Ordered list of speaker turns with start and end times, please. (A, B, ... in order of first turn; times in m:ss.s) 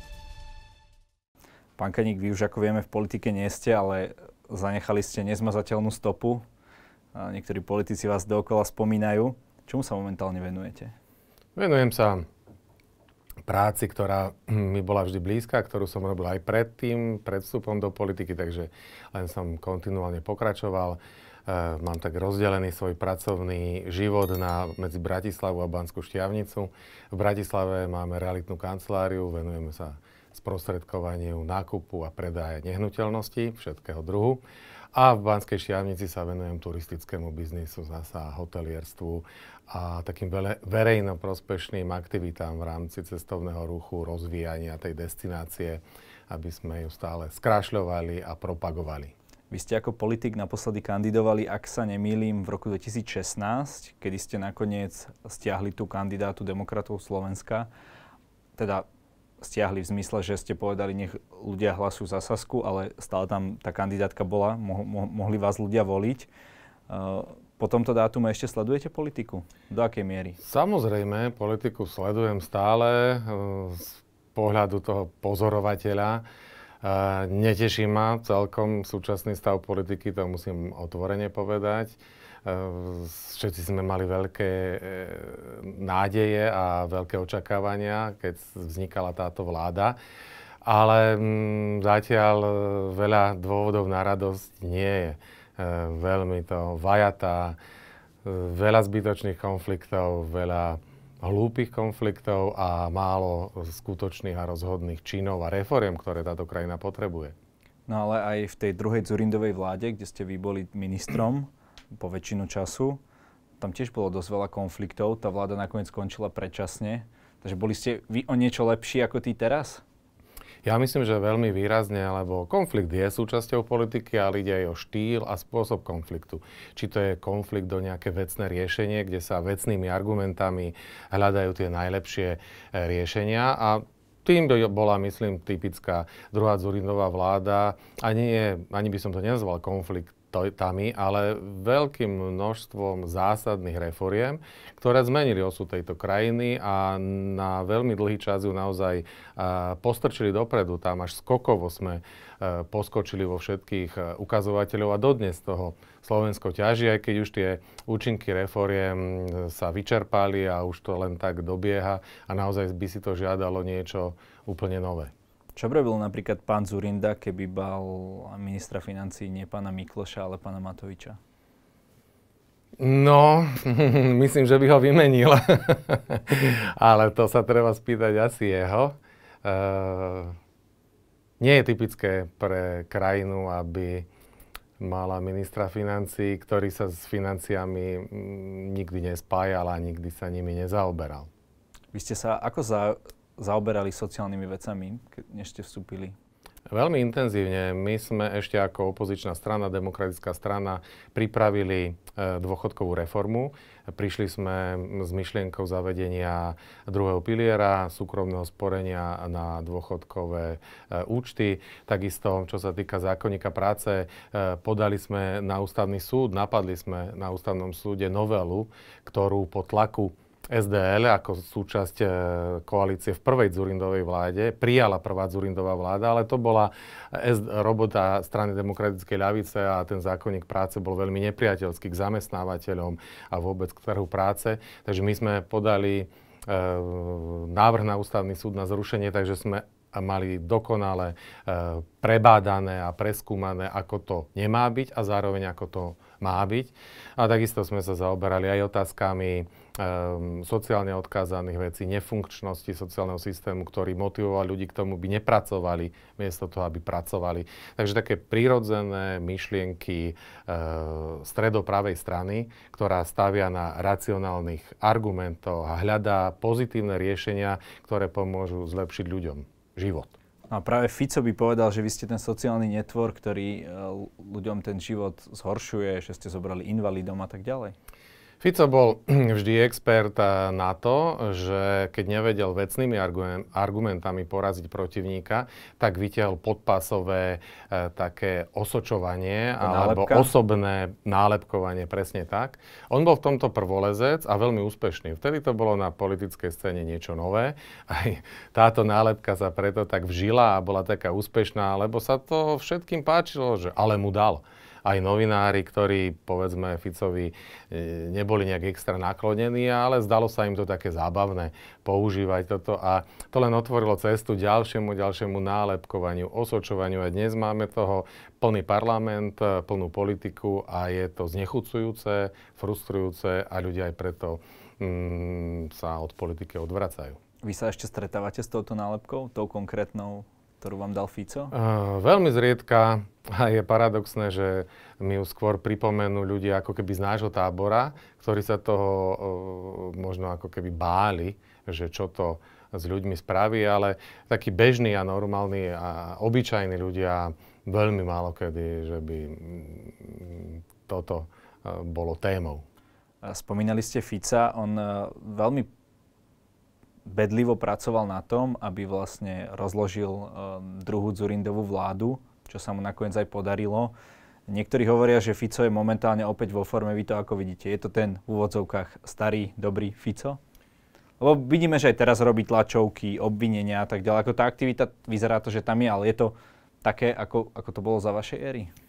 0:01.8-0:06.4 A
0:07.1-0:10.9 A
0:11.6-0:12.2 B
0:13.4-0:34.4 B
0:34.9-0:49.1 B
0:49.5-0:57.7 A
0:58.6-0:58.9 A
0:59.4-1:06.3 A
1:06.9-1:10.4 A
1:10.4-1:16.2 B
1:16.8-1:30.0 B
1:30.6-1:37.6 B
1:38.2-1:47.3 B
1:47.9-1:53.0 A
1:53.6-1:59.8 A
2:00.6-2:45.1 B
2:45.6-2:51.2 A
2:52.8-3:00.4 B
3:01.4-3:04.1 B
3:04.8-3:11.3 B
3:11.9-3:16.2 A
3:16.7-4:30.2 B
4:30.5-4:37.7 A
4:38.4-5:27.2 B
4:49.6-4:50.3 A
5:27.4-5:31.5 A
5:31.5-5:52.6 B
5:53.2-5:55.7 A
5:57.0-6:03.9 A
6:04.5-6:10.4 A
6:11.2-6:18.7 A